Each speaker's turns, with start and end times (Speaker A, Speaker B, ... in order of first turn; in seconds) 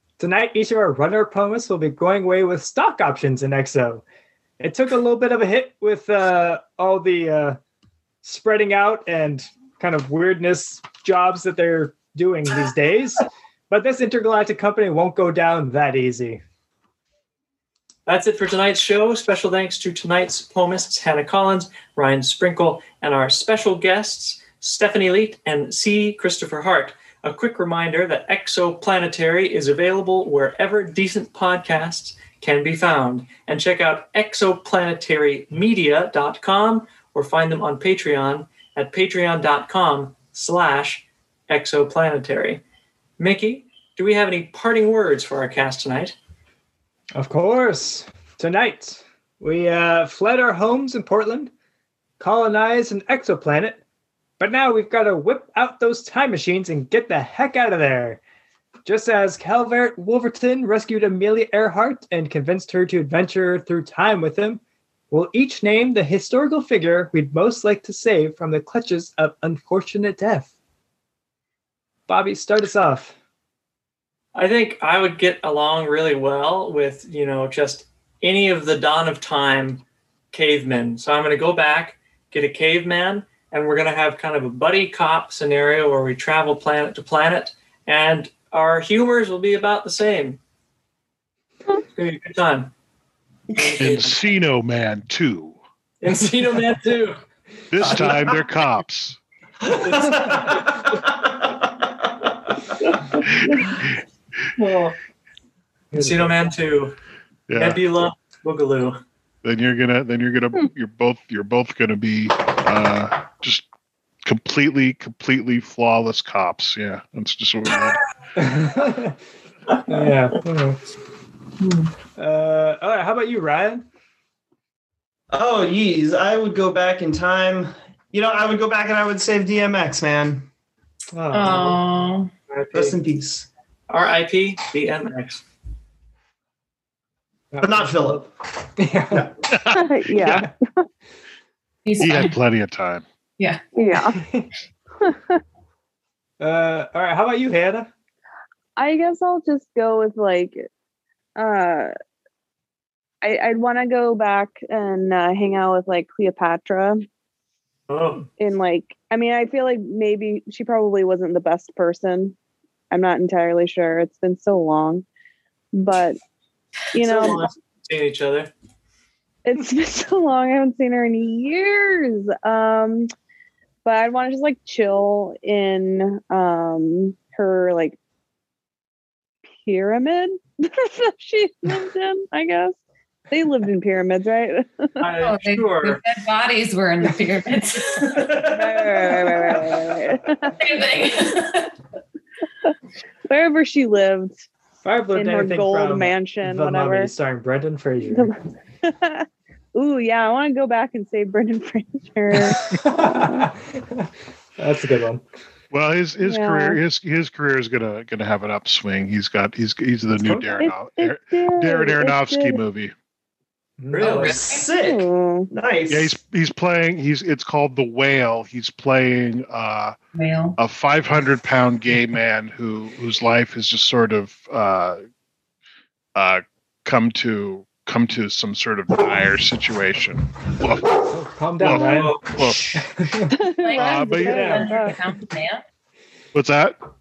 Speaker A: 0.2-4.0, 4.6-7.6, 8.2-16.4, 47.1-51.5, 52.2-53.8, 54.4-58.2, 58.8-70.5, 72.1-73.1, 105.9-106.4, 118.3-119.2, 119.9-120.8, 122.2-123.8, 131.1-131.8, 137.5-138.2, 138.8-139.3, 144.1-144.5, 146.4-147.9, 194.8-198.3, 202.7-205.2, 210.2-210.5, 213.8-214.3, 231.1-232.2, 232.7-233.3, 234.2-234.7
Speaker B: 18.1-42.6, 43.2-46.1, 74.3-90.4, 91.9-92.7, 93.5-94.2, 96.0-97.2, 97.8-98.3, 99.8-100.8, 102.8-103.7, 104.6-105.0, 105.9-107.0, 107.5-109.0, 119.7-120.1, 121.6-121.9, 132.5-132.9, 133.9-135.4, 157.9-158.3, 167.0-168.5, 185.0-186.0, 213.9-214.5, 231.7-232.2
Speaker C: 93.8-95.6, 97.7-99.2, 103.5-103.8, 107.5-107.8, 109.4-113.7, 114.2-118.0, 139.5-140.5, 142.0-143.0, 205.7-212.9, 215.9-219.9, 220.6-225.0, 226.1-231.0, 231.6-232.8, 233.7-234.6, 236.3-236.8
Speaker D: 99.6-102.3, 125.3-130.5, 132.7-133.5, 137.6-138.3, 139.1-139.3, 188.0-189.6, 214.3-216.1, 232.3-232.8
Speaker E: 131.3-132.3, 141.8-142.3, 185.2-188.2, 190.6-191.7, 214.0-214.7, 220.1-220.6, 233.6-235.6
Speaker F: 139.7-140.8, 143.7-144.2, 145.0-145.4, 148.8-150.7, 151.4-151.9, 153.2-157.1, 158.4-162.3, 162.9-165.1, 165.7-166.2, 166.9-167.4, 169.4-173.1, 173.8-178.0, 179.6-182.8, 183.3-185.0, 188.4-190.5, 193.3-194.4, 195.1-197.1, 198.1-202.6, 206.2-206.8, 210.6-212.6, 214.7-215.5, 233.3-235.0